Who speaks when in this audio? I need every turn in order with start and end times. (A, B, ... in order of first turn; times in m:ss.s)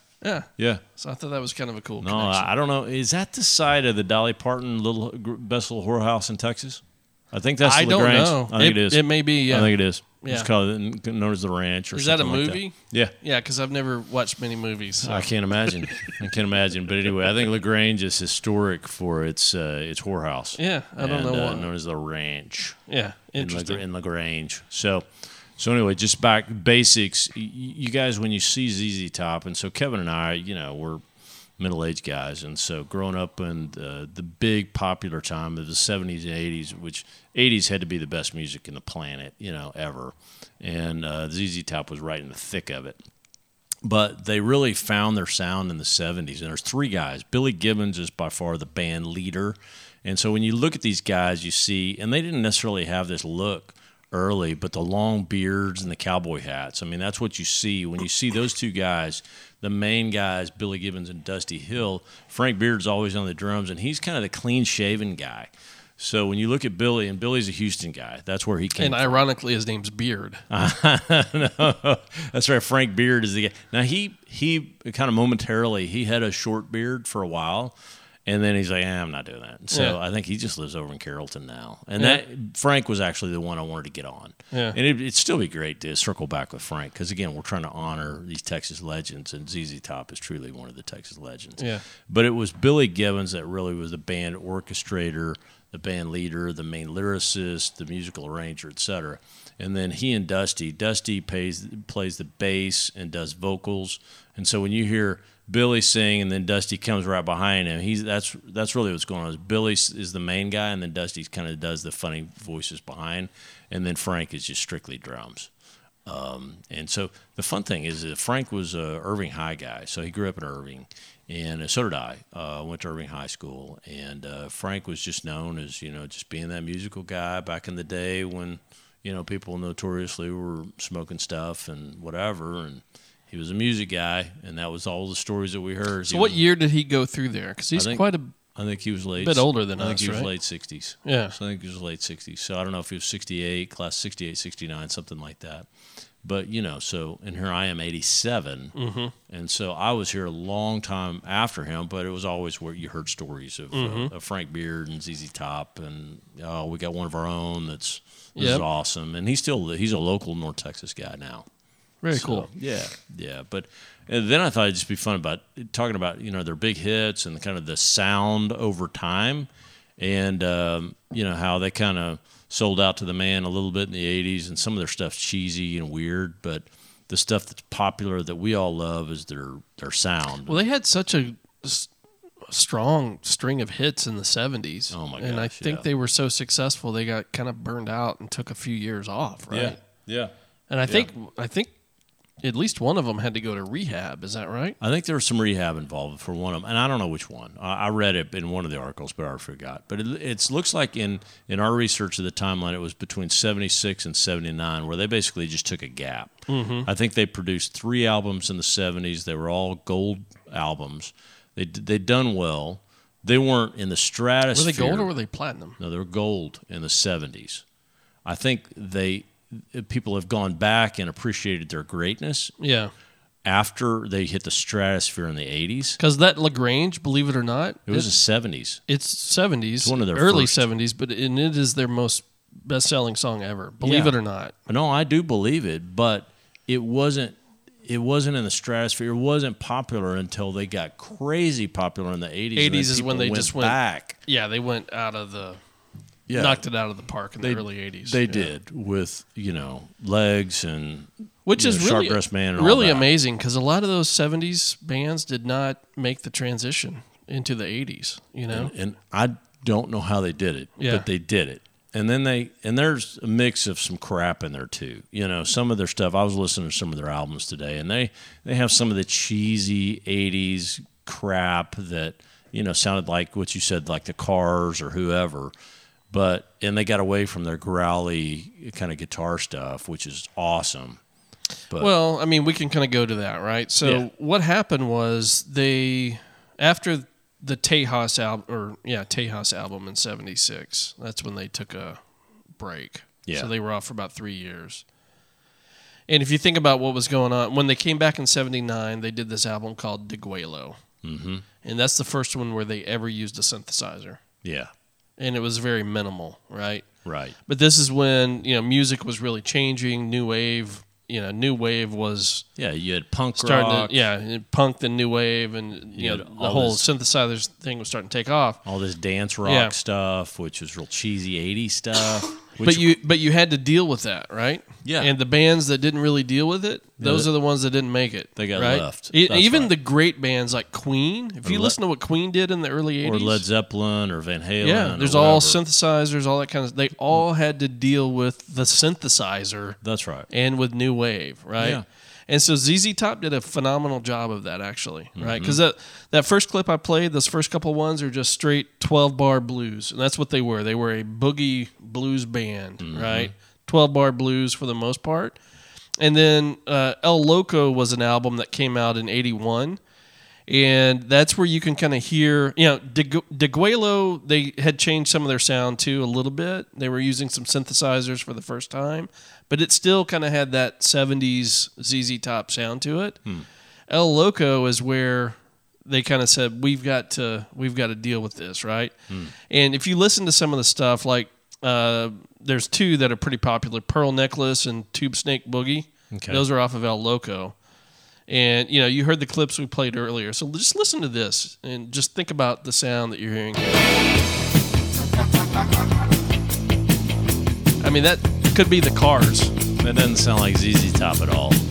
0:00.2-0:02.5 A
0:00.6-0:00.8 B
0:02.0-0:13.1 B
0:07.6-0:10.5 A
0:11.9-0:15.3 A
0:15.0-0:22.8 B
0:20.6-0:21.7 A
0:22.9-0:23.8 A
0:23.4-0:31.0 B
0:31.6-0:43.0 B
0:43.8-1:09.2 B
1:08.8-1:10.4 A
1:10.5-1:17.8 B
1:18.2-1:55.5 B
1:19.7-1:20.0 A
1:24.5-1:24.8 A
1:31.6-1:31.8 A
1:56.0-2:16.4 B
2:16.1-2:18.3 A
2:17.8-2:25.7 B
2:19.2-2:20.3 A
2:21.0-2:21.4 A
2:26.2-2:28.8 B
2:28.8-2:29.1 A
2:29.3-2:41.5 B
2:33.7-2:34.1 A
2:38.4-2:38.6 A
2:42.0-2:42.5 A
2:42.1-3:00.6 B
3:00.5-3:01.9 A
3:02.5-3:09.8 A
3:04.9-3:05.8 B
3:09.5-3:10.3 B
3:10.7-3:11.7 A
3:12.4-3:14.8 A
3:14.8-3:26.3 B
3:26.5-3:26.9 A
3:26.8-3:35.1 B
3:34.5-3:35.8 A
3:35.8-3:37.6 B
3:38.2-3:42.5 B
3:42.6-3:42.9 A
3:43.4-3:46.0 B
3:46.0-3:48.1 A
3:47.9-3:48.8 B
3:48.9-3:54.5 A
3:49.8-3:50.6 B
3:53.8-3:54.1 B
3:54.7-4:04.2 B
4:02.5-4:05.6 A
4:06.3-4:06.6 B
4:06.3-4:08.5 A
4:07.4-4:13.1 B
4:11.4-4:18.7 A
4:18.5-4:35.5 B
4:20.8-4:21.0 A
4:36.1-4:41.0 B
4:41.8-4:52.0 A
4:52.6-4:54.8 A
4:56.1-5:00.8 A
5:01.0-5:01.4 B
5:01.6-5:04.2 A
5:04.4-5:04.7 B
5:05.2-5:06.9 A
5:07.0-5:07.4 B
5:07.4-5:12.4 A
5:12.6-5:14.0 B
5:13.4-5:18.6 A
5:15.9-5:16.8 B
5:18.6-5:22.9 B
5:19.4-5:19.7 A
5:22.6-5:33.4 A
5:24.8-5:25.1 B
5:27.0-5:27.3 B
5:28.4-5:29.7 B
5:31.4-5:31.8 B
5:33.0-5:35.6 B
5:34.6-5:55.4 A
5:39.8-5:40.3 B
5:41.6-5:41.8 B
5:45.2-5:45.6 B
5:52.8-5:53.3 B
5:56.0-5:59.8 A
6:00.5-6:13.2 A
6:13.9-6:18.9 A
6:19.5-6:27.6 A
6:26.1-6:26.4 B
6:28.3-6:33.8 A
6:37.8-6:39.5 A
6:39.8-6:41.6 B